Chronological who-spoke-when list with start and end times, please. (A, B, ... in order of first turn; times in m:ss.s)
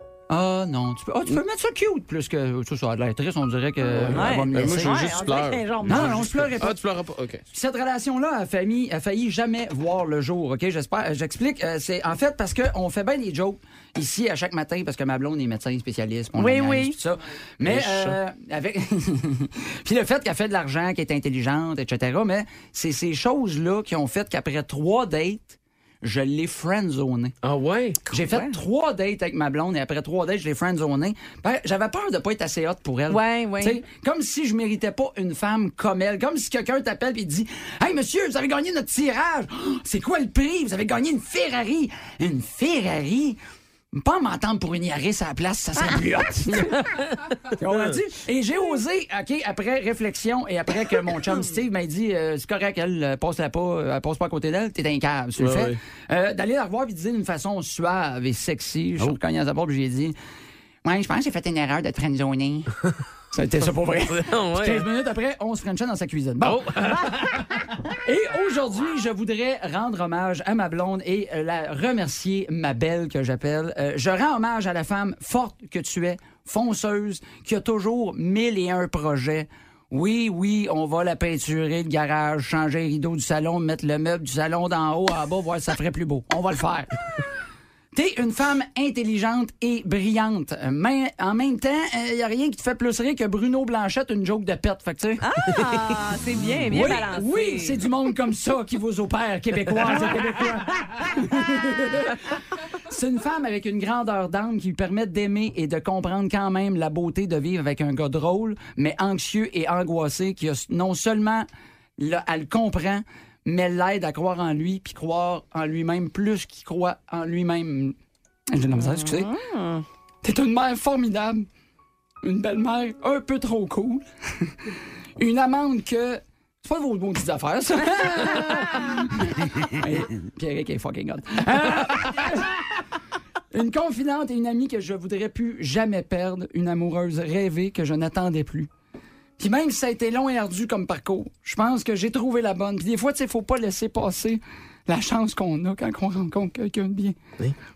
0:00.3-0:05.1 A
0:03.9-0:07.4 B
0:04.0-0:06.2 C
0:05.8-0:06.8 A
0:07.5-0:27.3 A
0:16.4-0:17.0 C
0:17.6-0:18.2 B
0:27.4-0:28.0 B
0:28.1-0:43.4 A
0:28.3-0:28.6 C
0:33.1-0:33.8 C
0:43.9-0:46.8 A
0:47.6-1:00.2 A
0:47.7-0:48.0 B
0:55.4-0:55.8 B
1:00.8-1:02.7 A
1:03.3-1:06.9 A
1:04.1-1:04.9 B
1:06.4-1:07.5 B
1:08.0-1:27.0 A
1:27.9-1:35.3 A
1:35.2-1:37.8 C
1:36.7-1:42.2 A
1:42.9-1:51.5 A
1:52.0-1:58.0 A
1:58.5-1:59.3 A
1:58.8-1:59.8 C
2:00.2-2:01.5 A
2:02.2-2:04.6 A
2:05.2-2:12.7 A
2:13.5-2:18.7 A
2:19.4-2:27.2 A